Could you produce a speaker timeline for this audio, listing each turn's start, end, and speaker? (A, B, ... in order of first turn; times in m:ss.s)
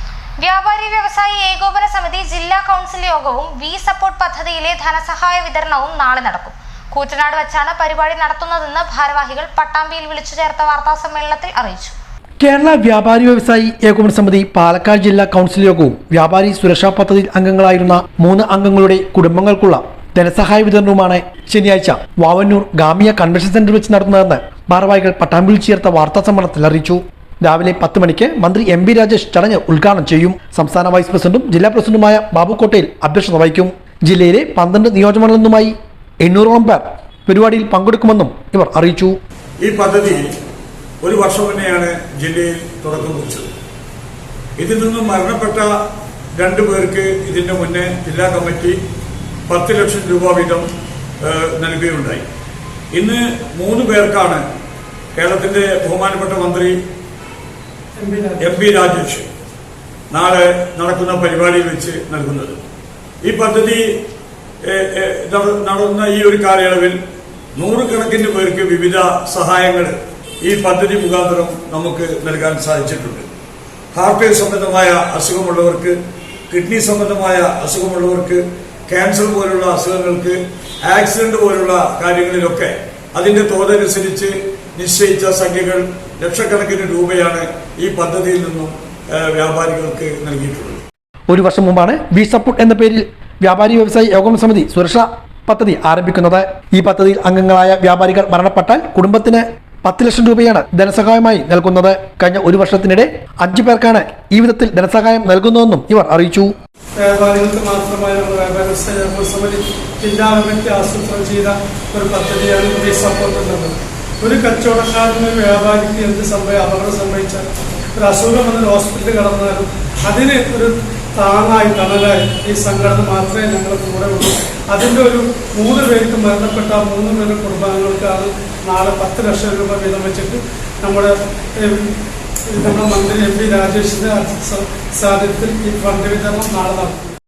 0:00.4-0:12.0 A
0:12.4-0:39.2 B
0:39.6-0:40.3 C
0:41.0-0:43.5 C
0:44.6-0:45.7 C
0:46.4-0:48.8 C
0:49.5-0:50.7 C
0:51.2-0:52.2 C
0:52.9-0:54.4 C
0:55.2-0:56.8 C
0:58.0-0:58.6 D
0:58.4-0:59.3 C
1:00.1-1:02.6 C
1:03.2-1:03.8 C
1:04.7-1:07.0 C
1:07.6-1:13.3 C
1:13.9-1:16.0 C
1:16.5-1:30.8 C
1:31.3-1:46.5 B
1:47.0-2:11.9 D
2:12.5-2:17.1 D